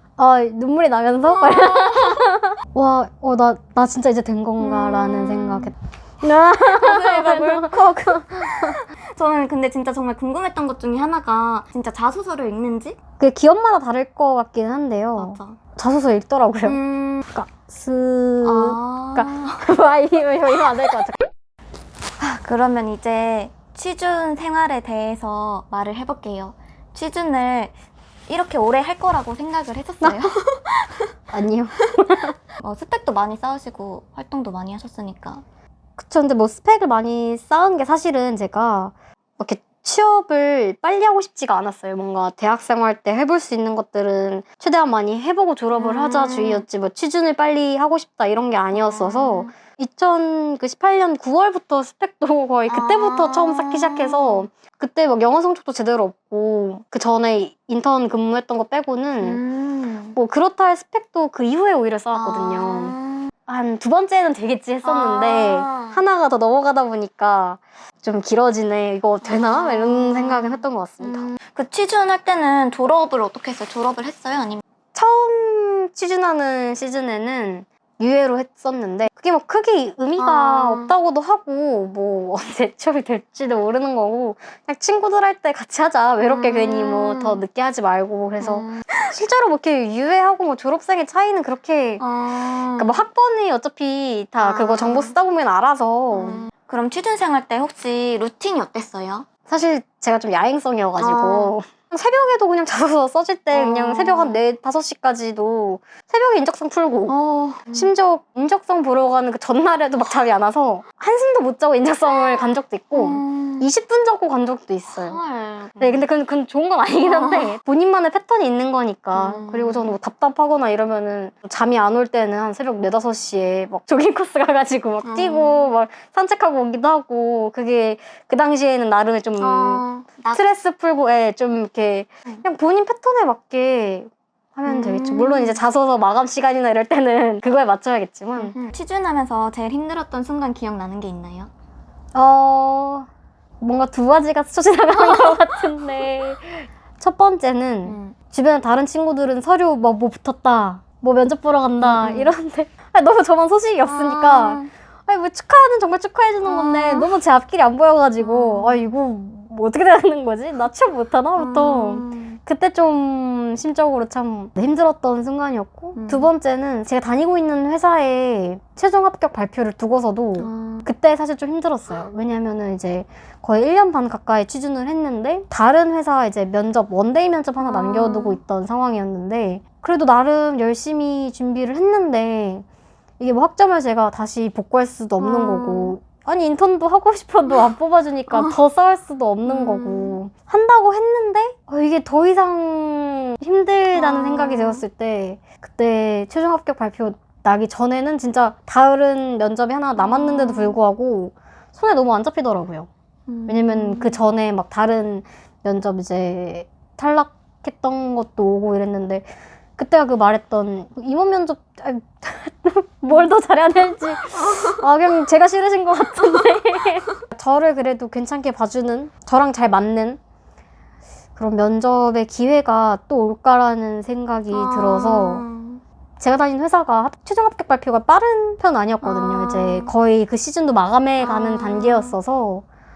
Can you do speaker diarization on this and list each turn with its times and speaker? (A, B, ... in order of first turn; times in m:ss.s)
0:00.2-0:08.8 A
0:01.3-0:02.2 B
0:04.6-0:05.7 B
0:06.5-0:13.0 B
0:13.2-0:16.8 A
0:15.2-0:15.6 B
0:16.6-0:17.3 B
0:17.3-0:21.3 A
0:18.4-0:19.6 B
0:22.2-0:27.7 B
0:28.3-0:31.1 B
0:30.0-0:30.3 A
0:31.3-0:32.3 A
0:32.6-0:35.4 B
0:36.0-0:59.4 A
0:45.7-0:46.6 B
0:48.7-0:49.5 B
0:52.7-0:54.5 B
0:59.2-1:00.2 B
1:00.2-1:03.0 A
1:02.1-1:03.3 B
1:03.5-1:11.3 A
1:04.8-1:06.0 B
1:09.2-1:14.6 B
1:15.0-1:32.0 A
1:20.2-1:20.9 B
1:26.2-1:27.4 B
1:28.4-1:29.1 B
1:32.0-1:33.0 B
1:32.8-1:36.4 A
1:34.4-1:35.1 B
1:36.1-1:39.3 B
1:39.5-1:47.2 A
1:41.0-1:41.5 B
1:43.5-1:44.4 B
1:47.1-1:47.9 B
1:47.7-1:55.2 A
1:52.9-1:53.7 B
1:54.9-1:56.0 B
1:55.8-2:18.6 A
1:57.0-1:57.5 B
1:59.1-2:00.0 B
2:05.0-2:05.7 B
2:09.4-2:10.4 B
2:14.6-2:15.6 B
2:18.4-2:21.5 B
2:22.1-2:23.1 A
2:23.6-3:02.6 A
2:24.9-2:25.6 B
2:27.9-2:28.2 B
2:31.8-2:32.3 B
2:33.8-2:34.7 B
2:36.4-2:37.1 B
2:38.2-2:38.9 B
2:41.4-2:42.4 B
2:46.0-2:46.3 B
2:50.4-2:50.9 B
2:57.6-2:58.4 B
3:03.2-3:22.9 A
3:05.2-3:05.9 B
3:08.3-3:08.6 B
3:09.4-3:10.2 B
3:13.9-3:14.8 B
3:20.0-3:20.8 B
3:23.3-3:24.2 B
3:23.5-3:40.2 A
3:34.4-3:34.8 B
3:41.4-3:45.4 A
3:44.5-3:45.8 B
3:46.2-3:52.6 A
3:49.0-3:49.9 B
3:51.2-3:52.2 B